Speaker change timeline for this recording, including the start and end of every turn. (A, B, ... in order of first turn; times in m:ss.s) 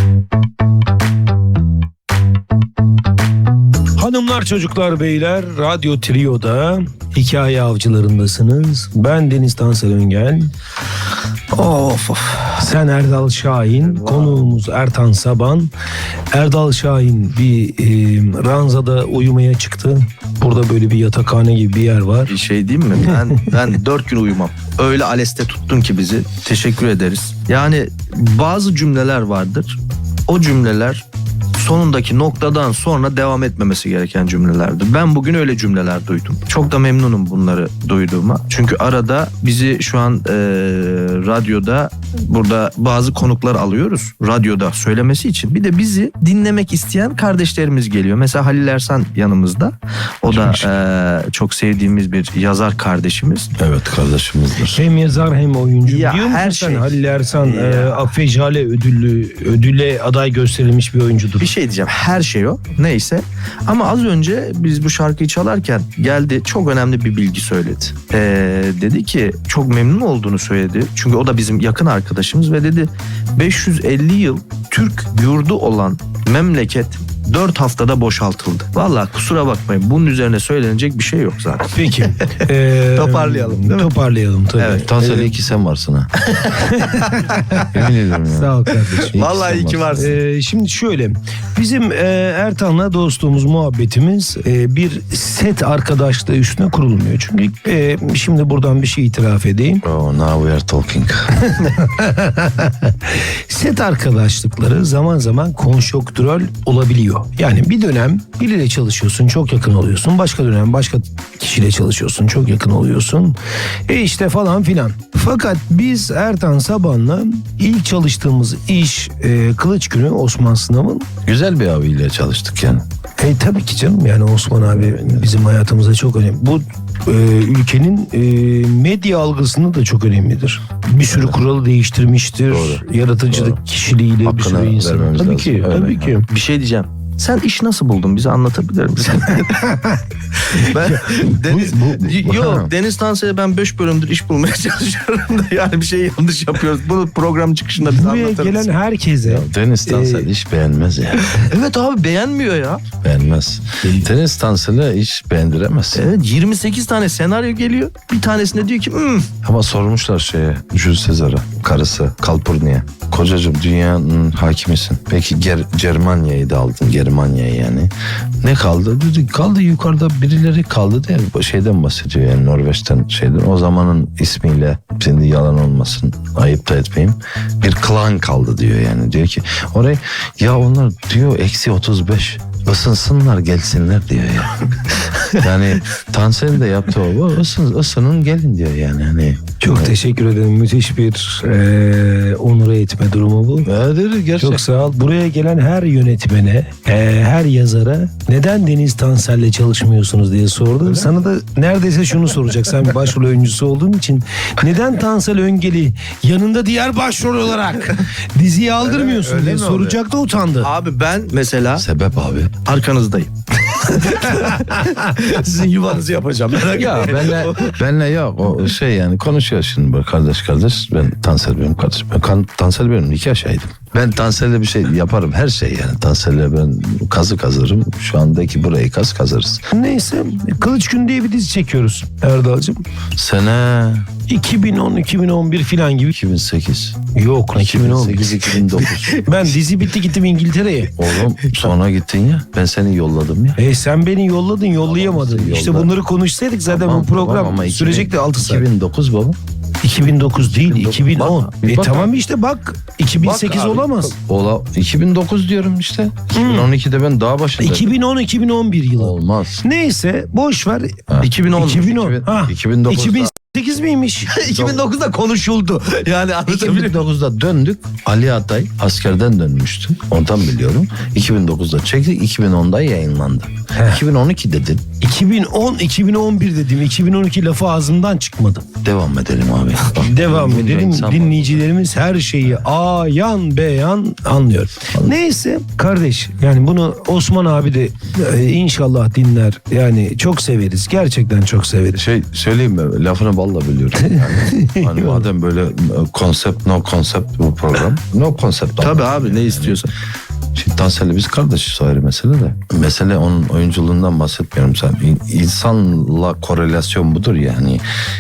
0:04.0-0:10.5 A
0:11.5-0:15.7 A
0:13.7-0:14.4 B
0:16.3-0:22.3 A
0:22.3-0:31.0 B
0:31.6-0:53.5 B
0:50.2-0:50.7 C
0:53.6-0:54.9 C
0:54.6-1:01.5 A
0:55.8-0:58.1 B
1:01.4-1:23.9 B
1:21.7-1:25.4 A
1:24.6-1:24.9 B
1:24.8-1:26.1 C
1:26.2-1:27.6 B
1:26.5-1:27.6 A
1:27.7-1:30.0 C
1:28.3-1:29.1 A
1:29.0-1:30.2 B
1:29.9-1:39.8 A
1:39.8-1:41.4 C
1:41.5-2:01.1 A
2:01.2-2:02.8 C
2:03.2-2:16.2 A
2:04.5-2:05.4 C
2:11.1-2:11.4 C
2:12.5-2:13.6 C
2:14.2-2:16.2 C
2:16.3-2:19.8 B
2:20.4-2:28.7 B
2:21.5-2:22.7 C
2:27.8-2:30.3 A
2:29.2-2:31.3 C
2:31.2-2:32.8 B
2:33.0-2:36.0 C
2:35.9-2:39.3 B
2:39.4-3:04.7 C
3:05.3-3:09.9 C
3:09.6-3:13.7 A
3:13.6-3:14.7 C
3:14.4-3:30.7 A
3:28.8-3:30.0 C
3:30.6-3:31.8 B
3:31.8-3:32.6 C
3:32.6-3:37.8 B
3:36.7-3:49.6 C
3:49.7-3:52.8 A
3:53.2-3:54.1 C
3:54.3-3:56.1 A
3:56.1-3:57.0 C
3:57.1-4:01.0 A
3:57.5-3:59.2 C
4:01.0-4:03.6 C
4:01.4-4:01.7 B
4:03.6-4:08.6 A
4:04.8-4:06.0 C
4:06.7-4:09.4 C
4:09.8-4:14.2 A
4:10.6-4:12.2 C
4:13.2-4:18.0 C
4:16.3-4:16.7 A
4:17.6-4:21.0 A
4:19.0-4:19.6 C
4:21.1-4:23.3 C
4:21.2-4:21.9 B
4:21.5-4:24.4 A
4:24.3-4:27.0 B
4:24.5-4:24.8 C
4:26.4-4:34.8 C
4:33.7-4:34.0 A
4:35.0-4:38.6 A
4:38.8-4:41.7 C
4:39.8-4:52.0 A
4:44.9-4:45.2 C
4:51.9-4:59.8 C
4:54.0-4:55.2 A
4:58.8-4:59.9 B
5:00.5-5:07.8 C